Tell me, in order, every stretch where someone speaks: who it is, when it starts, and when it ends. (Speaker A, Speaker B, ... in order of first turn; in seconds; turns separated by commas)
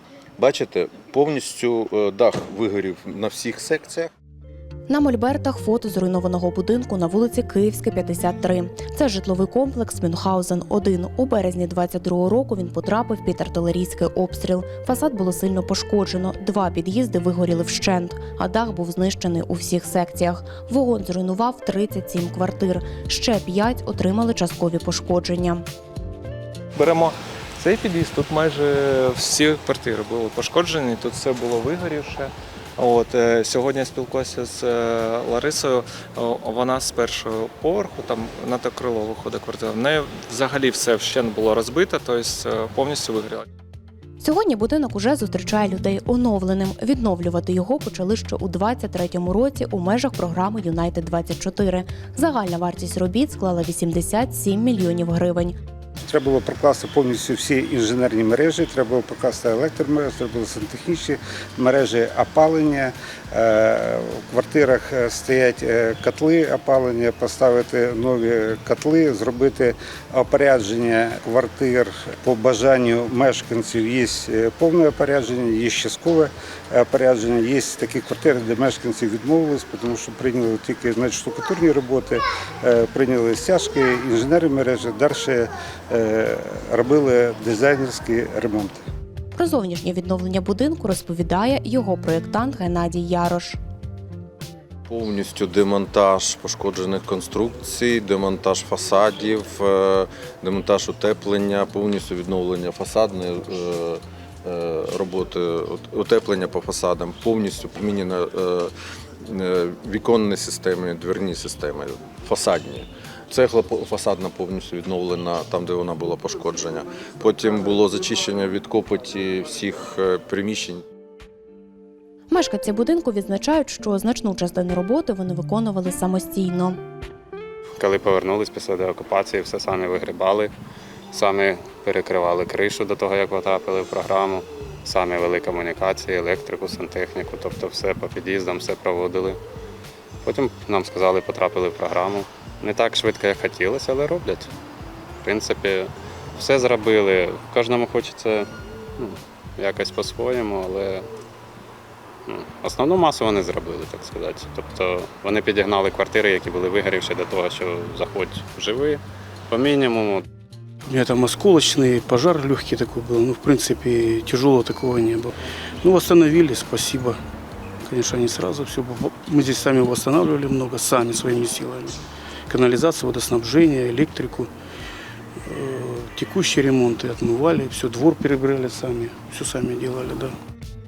Speaker A: 0.4-4.1, Speaker B: 4.9-25.6, Speaker C: 26.8-43.4, Speaker B: 44.2-55.5, Speaker D: 56.0-88.8, Speaker B: 89.3-93.6, Speaker A: 94.9-120.8, Speaker B: 122.3-126.8, Speaker E: 127.8-130.5, Speaker E: 131.1-139.4, Speaker E: 140.2-144.5, Speaker E: 145.2-151.1, Speaker E: 152.3-160.2, Speaker F: 160.9-165.3, Speaker F: 165.8-167.1, Speaker F: 167.9-171.9, Speaker F: 172.5-174.5, Speaker F: 175.5-180.3